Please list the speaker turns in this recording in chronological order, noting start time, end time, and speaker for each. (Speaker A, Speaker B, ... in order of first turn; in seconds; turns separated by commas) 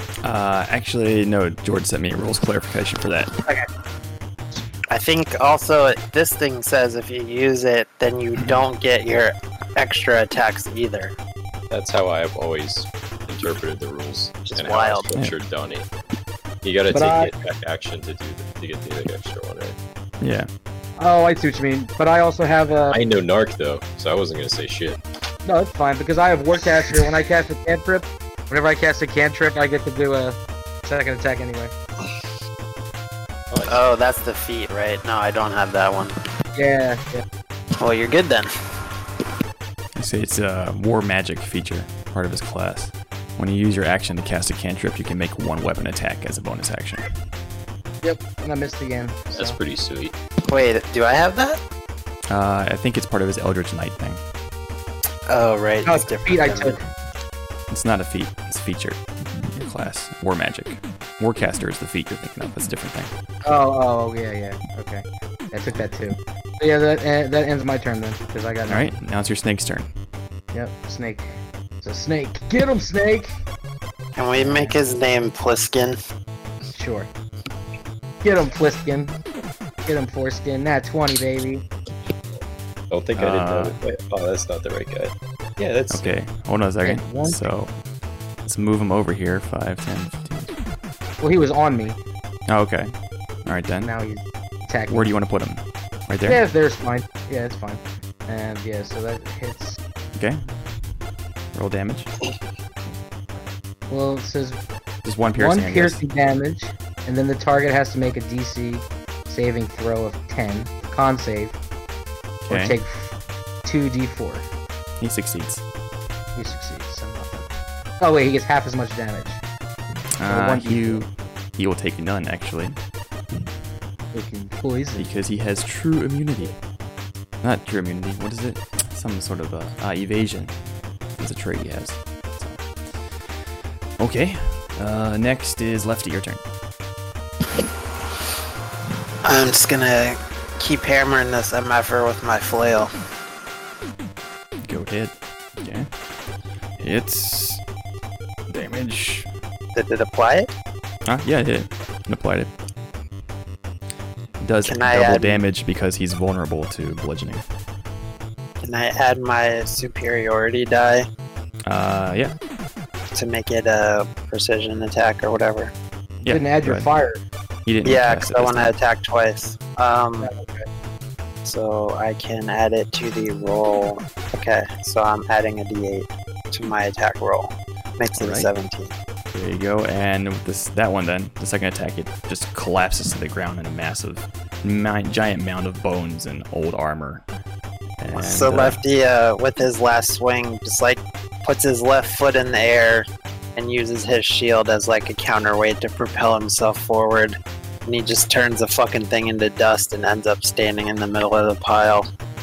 Speaker A: 0.2-3.4, Speaker B: 4.9-11.1, Speaker A: 8.3-8.6, Speaker C: 11.7-15.9, Speaker B: 14.4-15.1, Speaker C: 16.6-19.8, Speaker D: 16.9-17.3, Speaker A: 20.2-20.5, Speaker D: 21.0-23.0, Speaker C: 22.9-25.0, Speaker D: 25.4-31.7, Speaker C: 33.5-33.8, Speaker B: 33.7-36.2, Speaker D: 36.5-37.2, Speaker B: 37.8-38.5, Speaker A: 40.0-47.1, Speaker D: 48.0-49.6, Speaker C: 49.3-50.1, Speaker B: 50.4-51.6, Speaker A: 52.3-54.2, Speaker B: 55.3-56.8, Speaker D: 55.8-56.8, Speaker A: 57.7-63.1, Speaker D: 63.4-68.9, Speaker A: 68.7-69.9, Speaker D: 70.5-73.3, Speaker B: 74.2-76.0, Speaker D: 74.3-74.8, Speaker D: 76.7-77.1, Speaker D: 78.2-79.1, Speaker D: 79.8-81.6, Speaker C: 82.9-86.1, Speaker A: 83.2-83.8, Speaker A: 85.9-87.7, Speaker D: 86.8-87.4, Speaker A: 88.4-90.6, Speaker D: 91.2-92.0, Speaker A: 92.5-92.9, Speaker A: 93.4-93.9, Speaker D: 93.8-95.1, Speaker A: 94.9-96.4, Speaker D: 96.2-99.8, Speaker A: 100.2-100.5, Speaker A: 101.5-102.1, Speaker D: 103.9-104.6, Speaker A: 105.0-106.0, Speaker D: 105.4-111.6, Speaker A: 112.5-112.8, Speaker D: 112.5-114.5, Speaker A: 115.0-115.6, Speaker D: 116.3-117.5, Speaker D: 118.0-119.4, Speaker A: 120.2-122.8, Speaker D: 120.3-121.0, Speaker D: 124.1-125.1, Speaker A: 125.0-126.5, Speaker A: 127.4-130.5, Speaker A: 131.2-133.3, Speaker A: 134.0-136.4, Speaker B: 139.2-142.9, Speaker A: 144.6-145.9, Speaker A: 146.8-147.6, Speaker A: 148.5-149.3, Speaker B: 149.7-150.5, Speaker A: 151.1-152.5, Speaker A: 154.4-157.5, Speaker B: 154.6-155.4, Speaker B: 158.6-161.1, Speaker A: 161.7-162.3, Speaker B: 163.1-165.7, Speaker A: 166.2-166.9, Speaker D: 166.3-167.2, Speaker A: 167.7-168.7, Speaker B: 167.8-170.3, Speaker D: 170.2-170.6, Speaker B: 171.4-178.9, Speaker A: 178.2-178.5, Speaker A: 179.3-187.2, Speaker A: 188.0-188.8, Speaker B: 188.1-202.1